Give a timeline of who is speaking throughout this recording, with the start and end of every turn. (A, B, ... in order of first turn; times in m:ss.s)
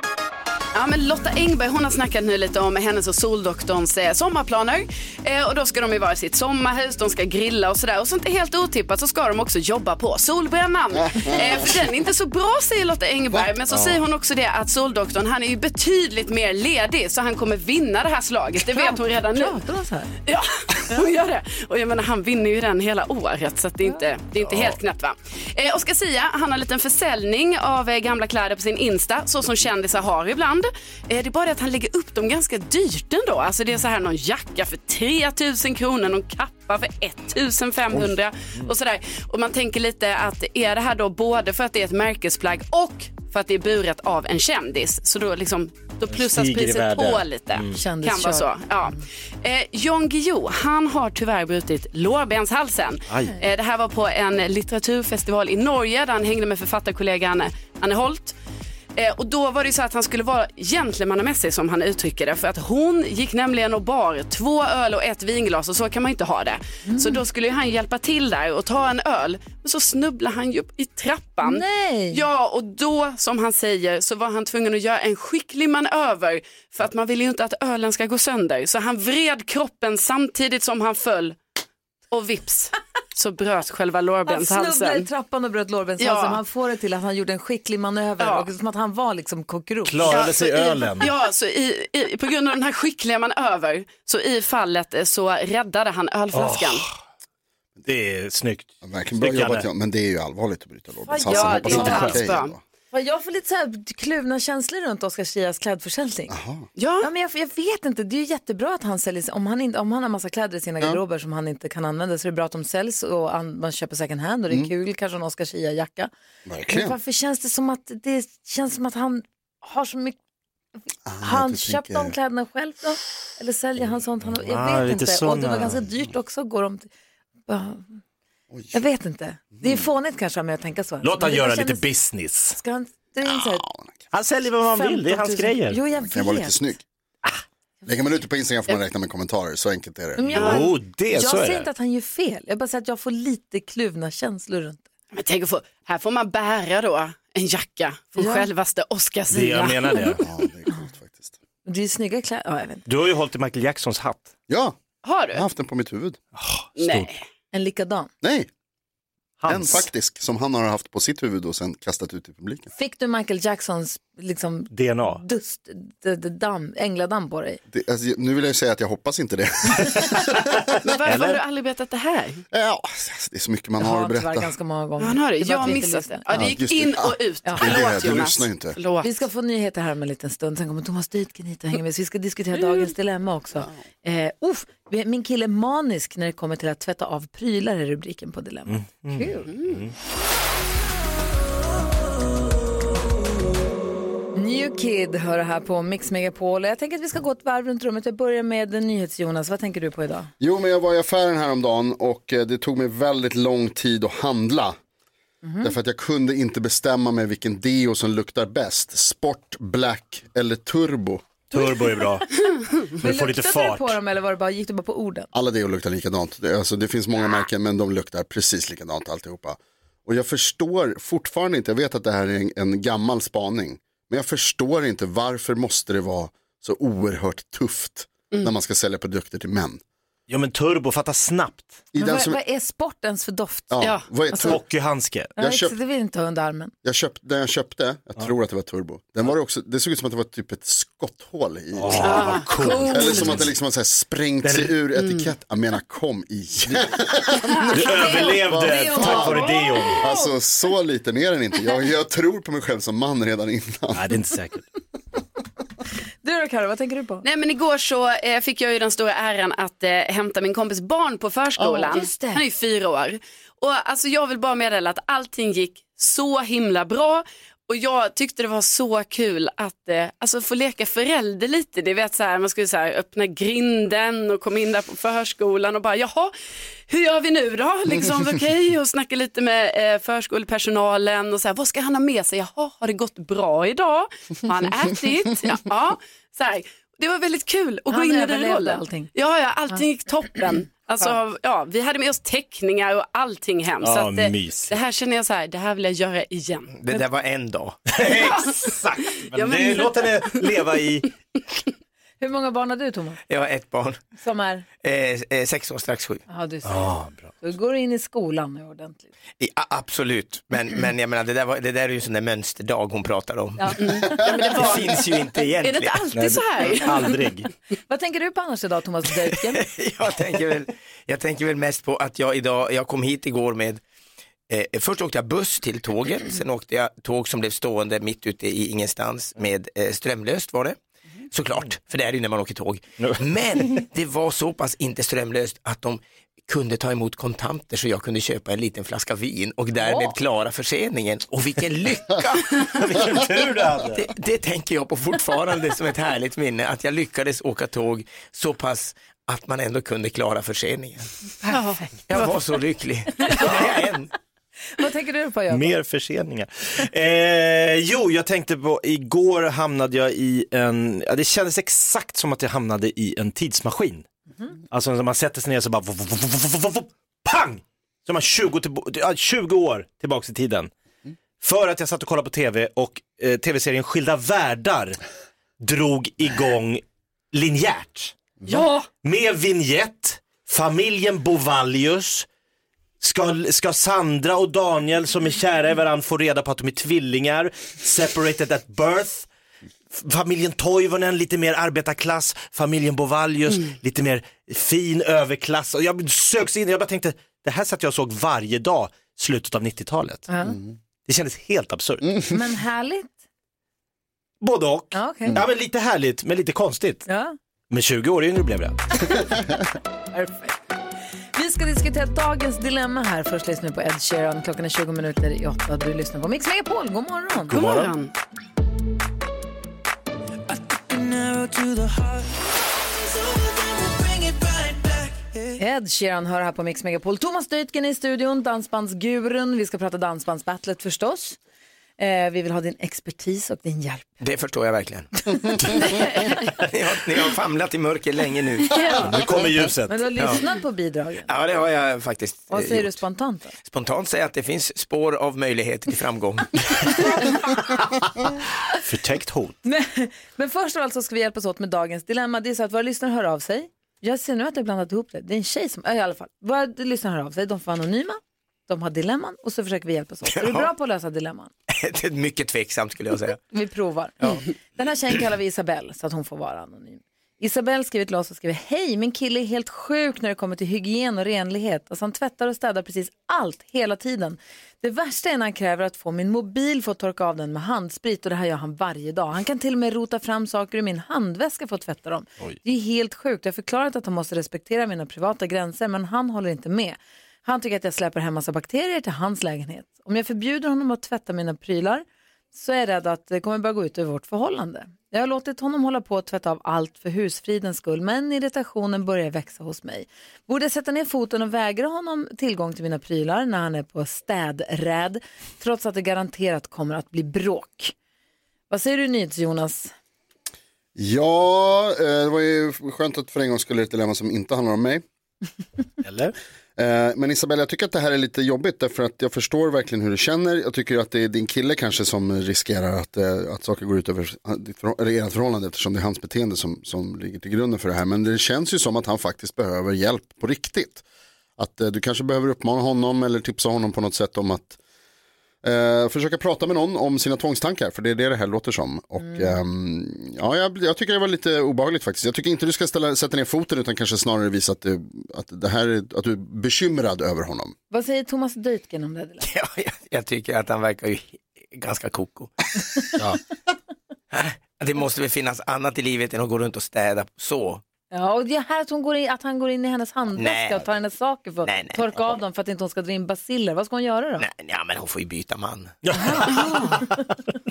0:00.7-0:19.6 A
0:11.0-0:11.8 B
0:18.7-0:20.1 C
0:20.3-0:58.4 A
0:46.1-0:47.8 D
0:47.7-0:49.0 C
0:53.1-0:53.4 D
0:59.0-1:21.4 A
1:06.9-1:07.2 C
1:11.4-1:12.2 C
1:22.1-1:25.1 A
1:24.3-1:30.3 C
1:26.0-1:26.4 A
1:28.2-1:28.5 A
1:29.9-1:31.1 D
1:30.1-1:36.9 A
1:36.3-1:36.9 D
1:37.9-1:39.7 D
1:38.8-1:42.6 B
1:41.1-1:42.2 C
1:41.3-1:42.5 A
1:41.7-1:42.0 D
1:42.9-1:46.4 C
1:46.3-1:46.7 B
1:46.8-1:47.1 A
1:47.0-1:56.1 C
1:56.5-1:57.0 B
1:56.7-2:00.2 C
2:01.1-2:02.2 B
2:01.2-2:06.9 C
2:04.3-2:05.8 D
2:07.5-2:07.9 C
2:08.5-2:08.8 B
2:08.7-2:11.8 C
2:09.6-2:09.8 B
2:11.0-2:12.6 D
2:12.6-2:13.6 C
2:13.2-2:14.1 B
2:14.1-2:15.8 D
2:14.7-2:16.6 C
2:16.0-2:16.8 B
2:17.9-2:20.7 B
2:20.2-2:24.8 C
2:20.3-2:21.7 D
2:25.1-2:30.2 A
2:28.2-2:28.5 C
2:29.3-2:30.2 D
2:30.2-2:31.4 B
2:31.6-2:32.8 C
2:32.9-2:34.3 D
2:34.5-2:34.8 B
2:35.0-2:35.4 A
2:35.3-2:36.2 B
2:36.4-2:37.1 D
2:36.8-2:37.2 A
2:37.5-2:38.1 C
2:38.2-2:38.5 B
2:39.4-2:39.9 D
2:39.5-2:42.7 B
2:42.8-2:47.6 C
2:44.7-2:45.2 D
2:47.7-2:50.4 B
2:50.3-2:51.4 D
2:50.8-2:52.4 A
2:52.5-2:54.5 B
2:53.8-2:56.5 C
2:55.0-2:59.1 A
2:56.3-2:58.8 B
2:57.4-2:57.7 C
2:59.0-3:09.5 C
3:03.6-3:03.8 B
3:08.7-3:09.9 D
3:14.3-3:20.3 C
3:20.4-3:24.8 B
3:25.4-3:25.7 C
3:25.6-3:31.2 B
3:31.5-3:32.3 D
3:31.5-3:32.1 C
3:32.8-3:34.0 D
3:33.0-3:35.3 C
3:35.3-3:49.8 B
3:50.3-3:51.8 D
3:51.9-3:52.4 B
3:52.0-3:53.8 C
3:53.7-3:54.6 B
3:54.3-3:54.6 C
3:54.4-3:55.3 D
3:55.4-3:56.7 C
3:55.4-3:55.7 B
3:56.8-4:14.1 B
4:01.8-4:03.5 D
4:02.0-4:03.4 A
4:04.4-4:04.7 D
4:05.0-4:05.3 A
4:07.7-4:10.0 D
4:07.8-4:10.1 C
4:13.9-4:14.7 D
4:16.2-4:17.2 C
4:17.2-4:36.3 A
4:21.6-4:21.9 B
4:21.9-4:22.4 C
4:36.9-4:56.7 A
4:47.9-4:49.1 C
4:53.8-4:54.7 D
4:56.7-4:57.9 E
4:57.9-5:01.1 D
4:58.1-4:58.7 A
4:59.2-5:00.4 A
5:02.2-5:03.2 C
5:03.3-5:04.0 E
5:04.2-5:04.6 C
5:04.8-5:06.2 E
5:06.3-5:06.9 C
5:06.6-5:07.3 D
5:07.4-5:09.1 C
5:09.4-5:16.1 E
5:13.6-5:14.2 C
5:13.8-5:15.0 A
5:15.6-5:17.2 A
5:16.1-5:17.5 D
5:17.9-5:19.7 C
5:19.5-5:23.8 E
5:24.5-5:30.8 E
5:31.3-5:42.6 E
5:39.9-5:40.1 C
5:42.6-5:44.1 D
5:43.9-5:51.1 E
5:51.4-5:52.2 C
5:51.5-5:52.3 A
5:52.1-5:54.1 E
5:54.8-5:55.7 C
5:55.5-6:04.1 D
6:04.7-6:10.7 D
6:11.4-6:15.0 D
6:15.6-6:18.2 D
6:19.0-6:22.3 D
6:23.0-6:29.3 D
6:29.9-6:40.3 D
6:40.3-6:40.6 C
6:41.1-6:42.2 D
6:42.3-6:43.2 C
6:44.4-6:47.1 D
6:44.9-6:45.4 C
6:47.1-6:47.4 C
6:47.7-6:49.1 D
6:50.1-6:50.6 C
6:51.4-6:57.5 C
6:57.5-6:57.9 D
6:57.5-6:58.1 A
7:05.6-7:11.4 C
7:12.0-7:14.1 C
7:14.2-7:18.9 E
7:15.4-7:16.1 C
7:18.8-7:19.1 C
7:18.9-7:20.1 D
7:19.9-7:21.3 C
7:21.3-7:23.0 E
7:22.5-7:23.5 C
7:23.6-7:27.2 E
7:28.7-7:29.6 D
7:29.6-7:41.5 C
7:40.2-7:40.7 E
7:41.7-7:43.4 E
7:43.5-8:27.9 C
8:28.7-8:29.9 C
8:31.0-8:35.0 B
8:36.0-8:36.4 D
8:36.8-8:51.0 B
8:51.6-8:54.8 B
8:55.6-9:07.8 B
8:59.2-8:59.5 C
9:07.9-9:09.4 C
9:09.4-9:13.2 E
9:14.3-9:17.8 E
9:18.1-9:24.4 C
9:20.3-9:20.9 E
9:21.6-9:22.3 E
9:24.4-9:26.0 E
9:26.0-9:27.2 D
9:26.2-9:27.1 C